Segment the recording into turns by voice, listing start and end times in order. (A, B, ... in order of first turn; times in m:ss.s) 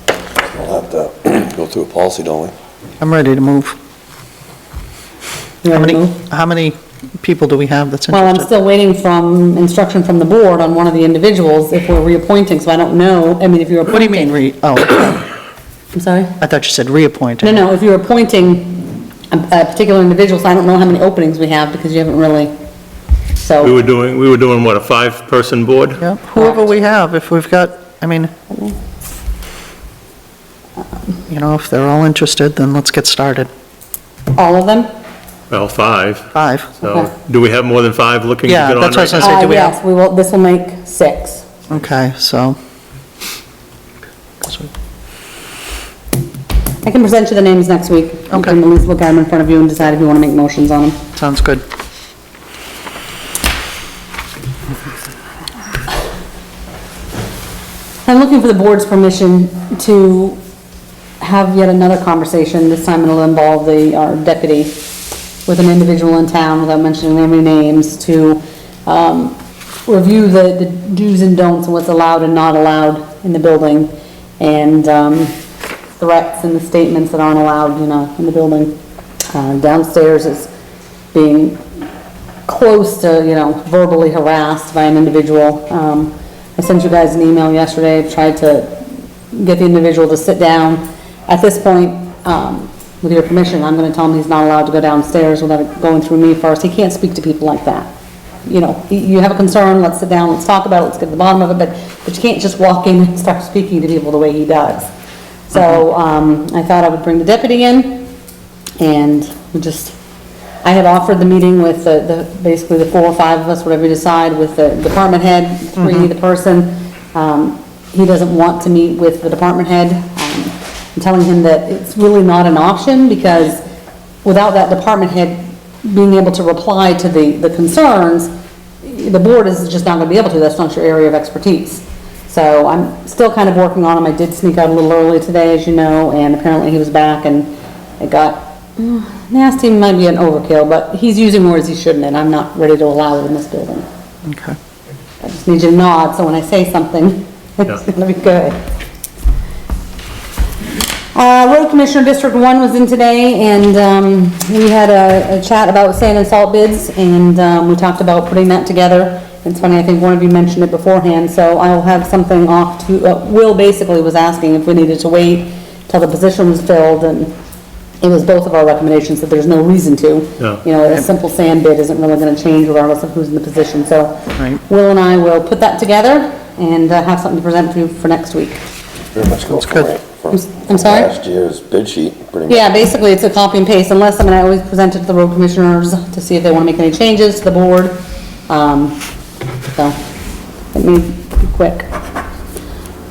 0:00.6-0:02.5 A
0:03.0-0:03.8 B
0:05.6-0:06.2 C
0:05.7-0:08.5 B
0:08.1-0:14.3 C
0:13.9-0:15.2 B
0:15.9-0:16.4 C
0:16.4-0:17.6 B
0:17.4-0:22.5 C
0:23.4-0:23.7 C
0:23.6-0:26.0 D
0:26.0-0:28.3 B
0:31.3-0:33.5 B
0:34.3-0:34.9 C
0:35.5-0:36.3 D
0:36.3-0:36.7 B
0:36.8-0:37.1 C
0:36.8-0:39.4 D
0:38.5-0:39.8 B
0:39.2-0:41.4 C
0:41.7-0:42.6 B
0:44.4-0:44.7 B
0:46.8-0:51.0 C
0:48.3-0:48.6 B
0:51.2-0:51.6 B
0:58.0-1:00.4 C
1:01.2-1:04.8 C
1:05.4-1:15.4 C
1:16.0-1:18.8 C
1:19.3-1:20.5 C
1:21.1-1:21.6 C
1:22.5-1:28.8 C
1:29.3-1:37.9 C
1:38.4-1:44.9 C
1:45.5-1:48.1 C
1:48.8-1:50.0 C
1:50.6-2:03.6 C
2:04.2-2:08.3 C
2:08.8-2:23.8 C
2:24.2-2:24.6 B
2:25.2-2:28.6 C
2:31.1-2:47.3 C
2:48.0-2:58.6 C
2:59.1-3:02.7 A
2:59.5-2:59.9 B
3:00.3-3:01.1 C
3:02.5-3:09.0 C
3:10.7-3:11.9 C